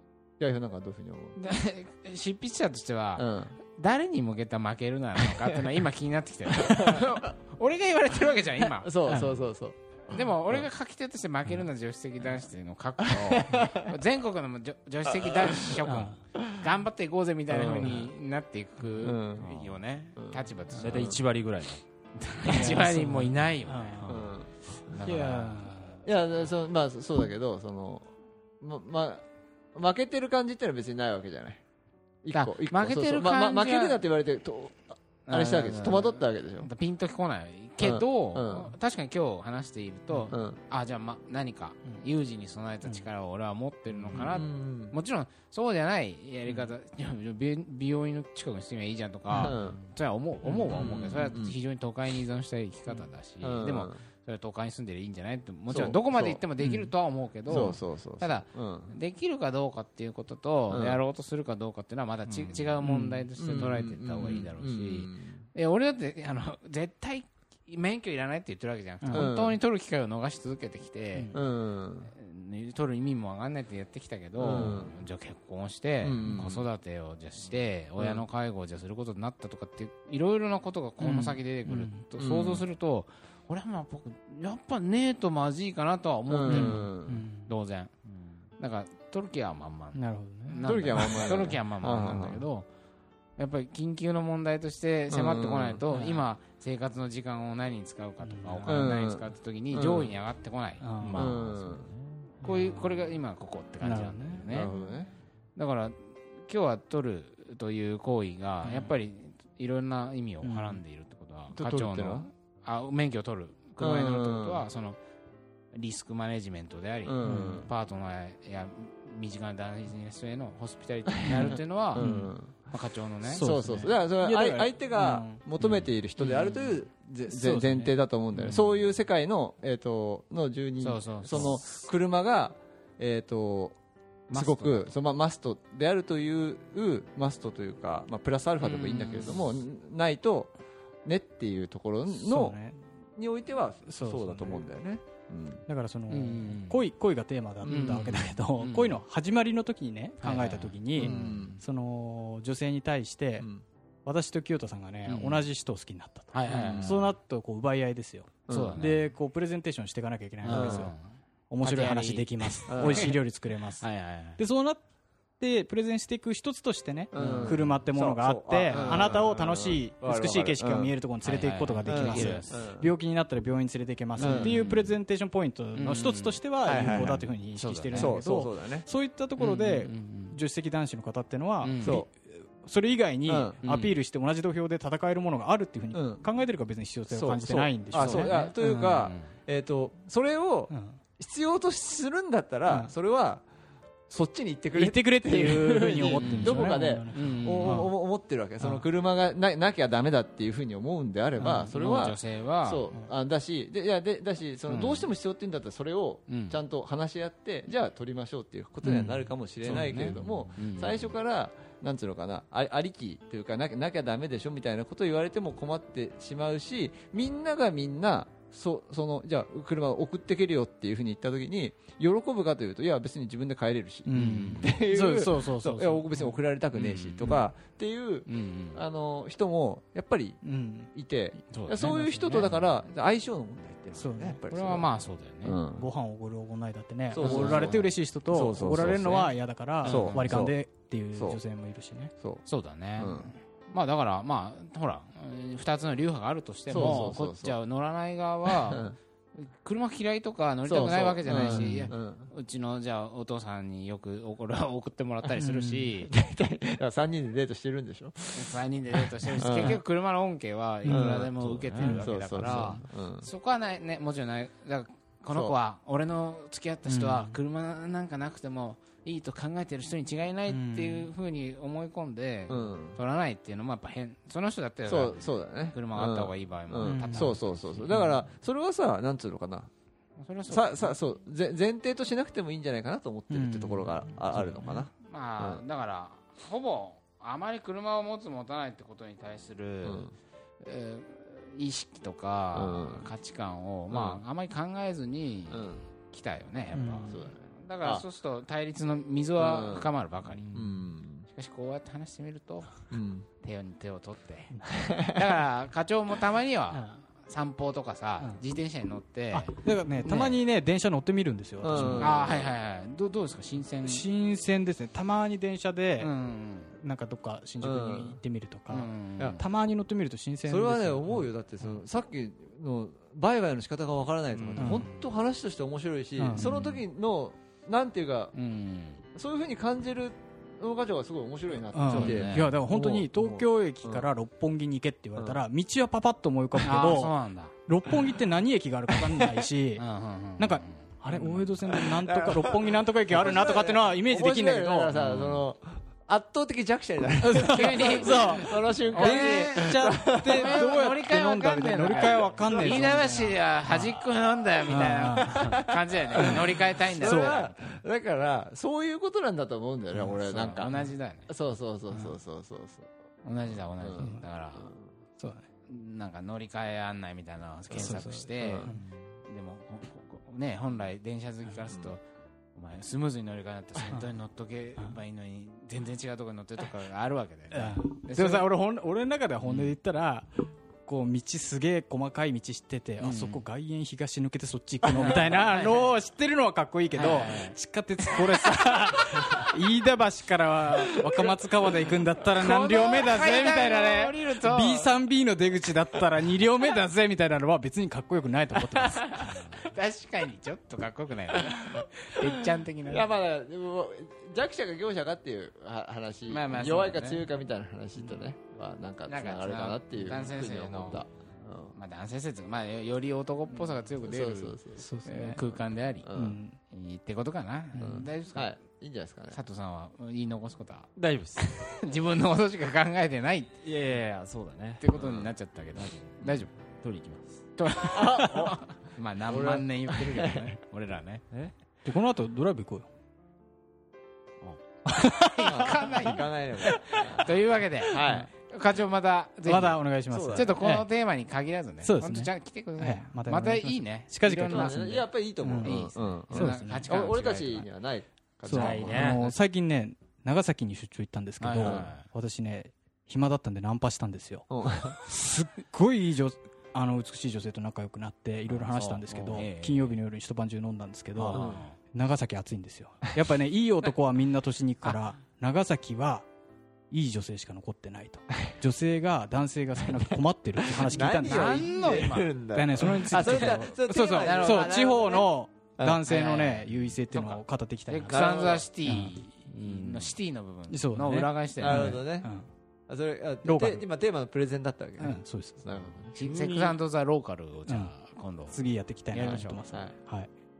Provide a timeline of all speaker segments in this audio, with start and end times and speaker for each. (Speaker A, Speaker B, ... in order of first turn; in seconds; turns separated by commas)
Speaker A: 0.4-1.4, Speaker B: 1.4-8.9, Speaker A: 3.1-3.5, Speaker A: 6.6-7.2, Speaker A: 8.8-10.7, Speaker C: 9.1-9.4, Speaker B: 10.1-21.1, Speaker A: 13.0-14.0, Speaker A: 15.1-16.6, Speaker C: 15.8-16.2, Speaker A: 17.5-18.1, Speaker A: 19.0-19.5, Speaker D: 19.4-19.8, Speaker A: 20.2-21.2, Speaker D: 20.7-21.8, Speaker B: 22.2-25.8, Speaker C: 22.5-24.2, Speaker A: 24.0-24.5, Speaker C: 25.0-26.0, Speaker A: 26.0-28.1, Speaker A: 28.6-29.2, Speaker A: 29.7-31.6, Speaker A: 32.2-36.7, Speaker B: 32.3-34.0, Speaker B: 35.3-71.4, Speaker A: 37.8-38.7, Speaker A: 40.3-40.6, Speaker A: 44.1-44.9, Speaker A: 49.3-49.8, Speaker A: 50.7-51.6, Speaker D: 50.7-51.0, Speaker A: 53.4-54.0, Speaker A: 55.7-56.4, Speaker C: 56.6-56.9, Speaker A: 57.5-59.0, Speaker A: 60.7-61.0, Speaker D: 62.3-62.7, Speaker C: 62.8-63.8, Speaker A: 63.4-65.5, Speaker C: 69.0-69.3, Speaker A: 69.1-69.6, Speaker A: 71.3-72.1, Speaker B: 72.1-86.9, Speaker A: 74.4-74.9, Speaker C: 74.5-74.8, Speaker A: 76.0-76.7, Speaker A: 78.0-78.2, Speaker C: 81.0-82.0, Speaker A: 82.2-82.6, Speaker A: 86.3-87.2, Speaker C: 86.5-87.5, Speaker B: 87.5-92.7, Speaker C: 89.9-91.1, Speaker A: 90.6-92.4, Speaker B: 93.4-100.8, Speaker A: 95.1-95.8, Speaker C: 95.9-96.2, Speaker C: 98.2-98.9, Speaker A: 98.7-100.1, Speaker C: 100.8-101.3, Speaker D: 101.0-102.3, Speaker A: 101.1-101.9, Speaker C: 102.4-103.1, Speaker B: 102.4-104.7, Speaker C: 103.8-104.9, Speaker A: 104.5-105.1, Speaker B: 105.5-115.0, Speaker C: 108.6-108.9, Speaker C: 110.4-110.8, Speaker A: 111.5-112.3, Speaker A: 113.8-114.7, Speaker B: 115.7-123.9, Speaker A: 117.0-117.7, Speaker C: 117.2-117.6, Speaker A: 121.2-122.7, Speaker C: 121.2-122.3, Speaker A: 123.2-133.8, Speaker C: 123.3-125.4, Speaker B: 126.2-126.6, Speaker C: 127.3-128.6, Speaker B: 130.8-131.8, Speaker B: 134.3-134.9, Speaker A: 134.3-140.5, Speaker B: 138.6-139.5, Speaker A: 141.0-142.6, Speaker C: 142.1-142.8, Speaker A: 143.2-145.6, Speaker C: 143.9-144.6, Speaker C: 145.7-153.5, Speaker B: 146.1-146.8, Speaker A: 147.6-148.3, Speaker B: 147.6-149.0, Speaker B: 150.2-151.6, Speaker A: 151.0-151.6, Speaker A: 153.4-153.6, Speaker C: 154.1-160.9, Speaker B: 155.1-155.4, Speaker B: 156.3-157.1, Speaker A: 156.5-157.0, Speaker A: 158.5-158.9, Speaker B: 158.5-159.0, Speaker B: 160.4-161.0, Speaker A: 160.5-160.9, Speaker C: 161.5-163.8, Speaker B: 161.6-163.2, Speaker A: 162.7-163.2, Speaker B: 163.8-164.4, Speaker C: 164.4-164.8, Speaker C: 165.4-189.0, Speaker A: 167.1-170.9, Speaker B: 167.1-167.6, Speaker B: 168.7-169.1, Speaker B: 171.2-172.6, Speaker A: 171.8-172.9, Speaker A: 174.2-174.7, Speaker B: 174.2-174.9, Speaker B: 175.8-178.1, Speaker A: 176.6-177.3, Speaker A: 177.9-178.9, Speaker B: 179.4-180.4, Speaker B: 181.6-182.0, Speaker A: 181.8-182.1, Speaker A: 183.3-183.6, Speaker B: 183.6-183.9, Speaker A: 185.9-186.2, Speaker A: 187.1-193.4, Speaker B: 187.9-189.3, Speaker C: 190.7-191.0, Speaker A: 194.1-234.9, Speaker C: 194.7-197.9, Speaker B: 196.2-197.9, Speaker C: 201.4-201.7, Speaker B: 201.4-202.8, Speaker B: 204.7-205.1, Speaker B: 206.3-206.6, Speaker C: 208.8-209.2, Speaker B: 209.6-211.1, Speaker C: 224.1-226.2, Speaker B: 224.1-224.7, Speaker B: 226.7-227.4, Speaker B: 228.3-228.8, Speaker C: 230.4-230.9, Speaker B: 231.5-232.6, Speaker C: 231.8-232.5, Speaker C: 233.9-234.4, Speaker B: 234.5-235.6, Speaker A: 235.4-235.9, Speaker C: 235.7-242.1, Speaker A: 237.1-240.6, Speaker B: 237.2-237.7, Speaker B: 239.8-240.4, Speaker A: 241.1-241.4, Speaker B: 242.4-256.1, Speaker A: 243.0-243.3, Speaker A: 246.7-247.6, Speaker C: 246.7-247.0, Speaker A: 248.5-249.0, Speaker A: 250.6-252.3, Speaker C: 251.3-251.9, Speaker C: 255.3-255.9, Speaker A: 256.1-259.8, Speaker B: 258.3-278.2, Speaker C: 260.8-261.1, Speaker A: 260.9-261.3, Speaker D: 261.3-262.0, Speaker C: 261.8-262.7, Speaker A: 261.9-263.3, Speaker A: 265.3-265.5, Speaker C: 266.9-267.4, Speaker C: 270.5-271.1, Speaker A: 272.5-273.0, Speaker A: 274.9-279.7, Speaker C: 276.8-277.4, Speaker B: 280.2-281.0, Speaker A: 280.5-285.6, Speaker C: 283.3-284.7, Speaker B: 285.0-310.4, Speaker A: 289.8-290.1, Speaker A: 292.5-293.1, Speaker A: 293.9-294.2, Speaker A: 295.5-295.8, Speaker C: 296.7-297.2, Speaker A: 297.1-298.0, Speaker A: 299.4-299.9, Speaker A: 300.5-301.3, Speaker A: 302.9-303.2, Speaker A: 304.8-305.2, Speaker C: 306.7-307.0, Speaker C: 309.3-312.1, Speaker A: 311.6-312.5, Speaker B: 311.9-314.1, Speaker C: 313.9-316.1, Speaker B: 316.0-316.8, Speaker C: 316.7-321.2, Speaker A: 317.6-318.2, Speaker B: 318.7-319.4, Speaker A: 320.5-328.3, Speaker D: 324.3-324.9, Speaker C: 324.6-324.9, Speaker C: 326.2-326.5, Speaker B: 328.3-329.0, Speaker A: 329.1-334.1, Speaker C: 331.7-337.1, Speaker B: 331.9-332.5, Speaker A: 335.1-335.4, Speaker B: 336.6-337.5, Speaker C: 337.7-339.8, Speaker B: 339.8-340.8, Speaker C: 340.4-344.9, Speaker A: 341.2-350.8, Speaker B: 344.9-345.4, Speaker C: 347.2-353.9, Speaker B: 347.4-357.8, Speaker A: 352.2-353.0, Speaker C: 354.7-355.6, Speaker A: 355.3-360.7, Speaker C: 356.1-356.4, Speaker C: 357.0-357.4, Speaker B: 360.0-361.3, Speaker A: 361.3-362.9, Speaker B: 363.2-364.7, Speaker A: 363.8-364.8, Speaker C: 364.0-364.2, Speaker C: 365.2-365.4, Speaker B: 365.7-372.0, Speaker A: 367.7-368.7, Speaker C: 367.8-368.8, Speaker A: 371.7-371.9, Speaker B: 372.5-378.5, Speaker C: 377.5-380.3, Speaker B: 379.4-379.8, Speaker C: 380.9-399.5, Speaker B: 383.0-383.4, Speaker B: 384.9-385.9, Speaker B: 386.9-387.6, Speaker B: 392.3-394.9, Speaker B: 398.8-403.1, Speaker A: 402.2-411.7, Speaker B: 406.3-407.2, Speaker B: 409.1-411.0, Speaker B: 411.7-418.6, Speaker A: 414.0-414.8, Speaker C: 414.8-415.4, Speaker A: 416.0-416.4, Speaker C: 416.1-416.6, Speaker C: 417.7-418.0, Speaker A: 417.8-419.4, Speaker B: 419.3-420.9, Speaker D: 420.9-421.7, Speaker B: 421.5-423.5, Speaker D: 423.6-427.4, Speaker B: 424.8-426.5, Speaker B: 427.6-431.2, Speaker A: 427.8-430.5, Speaker C: 431.8-432.9, Speaker C: 434.9-435.5, Speaker B: 435.2-445.1, Speaker A: 435.4-437.3, Speaker A: 437.9-438.3, Speaker C: 439.4-440.9, Speaker A: 440.1-440.8, Speaker C: 441.8-445.8, Speaker A: 444.4-449.2, Speaker B: 445.6-447.7, Speaker C: 446.3-446.9, Speaker C: 448.5-454.4, Speaker D: 448.5-449.2, Speaker B: 448.5-449.2, Speaker B: 451.4-452.1, Speaker A: 451.6-451.9, Speaker A: 454.5-455.0, Speaker C: 455.0-466.3, Speaker D: 458.8-459.8, Speaker B: 459.0-459.7, Speaker B: 461.2-461.8, Speaker A: 461.3-461.6, Speaker C: 466.9-471.9, Speaker A: 470.6-476.0, Speaker B: 471.2-472.3, Speaker C: 472.5-478.3, Speaker B: 473.1-475.2, Speaker B: 476.0-482.0, Speaker A: 478.1-478.7, Speaker C: 478.8-479.1, Speaker C: 480.7-482.5, Speaker A: 481.6-482.3, Speaker A: 482.9-486.1, Speaker C: 483.4-483.8, Speaker C: 485.0-485.6, Speaker D: 486.1-486.8, Speaker B: 486.1-488.6, Speaker C: 487.7-487.9, Speaker C: 488.5-490.3, Speaker B: 489.1-489.6